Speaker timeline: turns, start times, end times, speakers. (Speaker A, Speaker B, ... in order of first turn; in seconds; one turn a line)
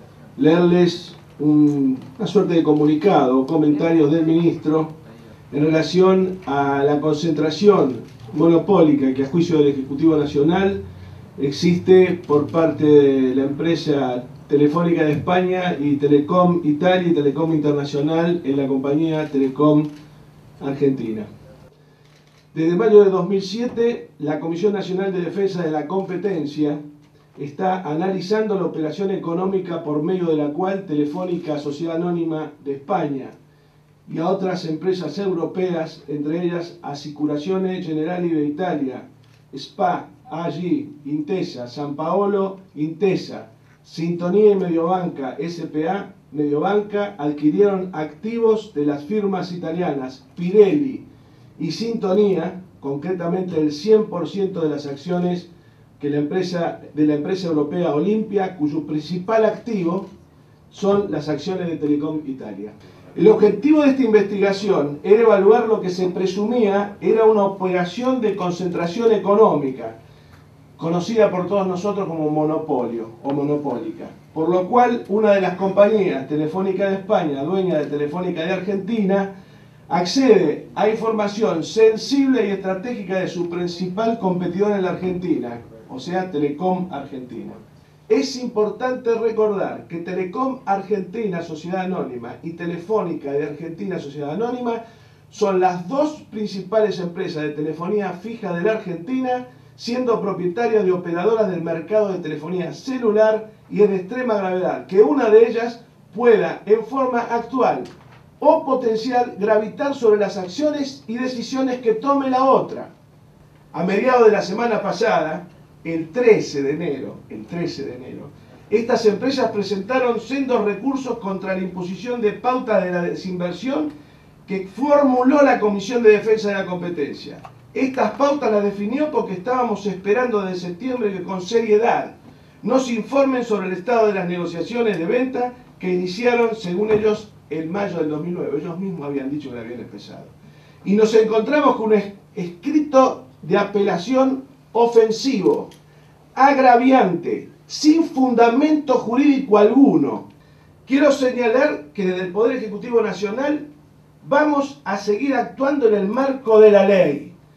Speaker A: 0.4-4.9
Speaker A: 5.5-10.8
Speaker A: 11.4-19.9
Speaker A: 20.6-21.3
Speaker A: 22.5-26.8
Speaker A: 27.4-33.4
Speaker A: 34.1-51.0
Speaker A: 51.6-60.1
Speaker A: 60.7-70.0
Speaker A: 70.8-79.3
Speaker A: 79.9-87.6
Speaker A: 88.1-112.9
Speaker A: 113.7-123.9
Speaker A: 124.5-145.7
Speaker A: 146.3-150.3
Speaker A: 150.9-153.7
Speaker A: 154.2-157.3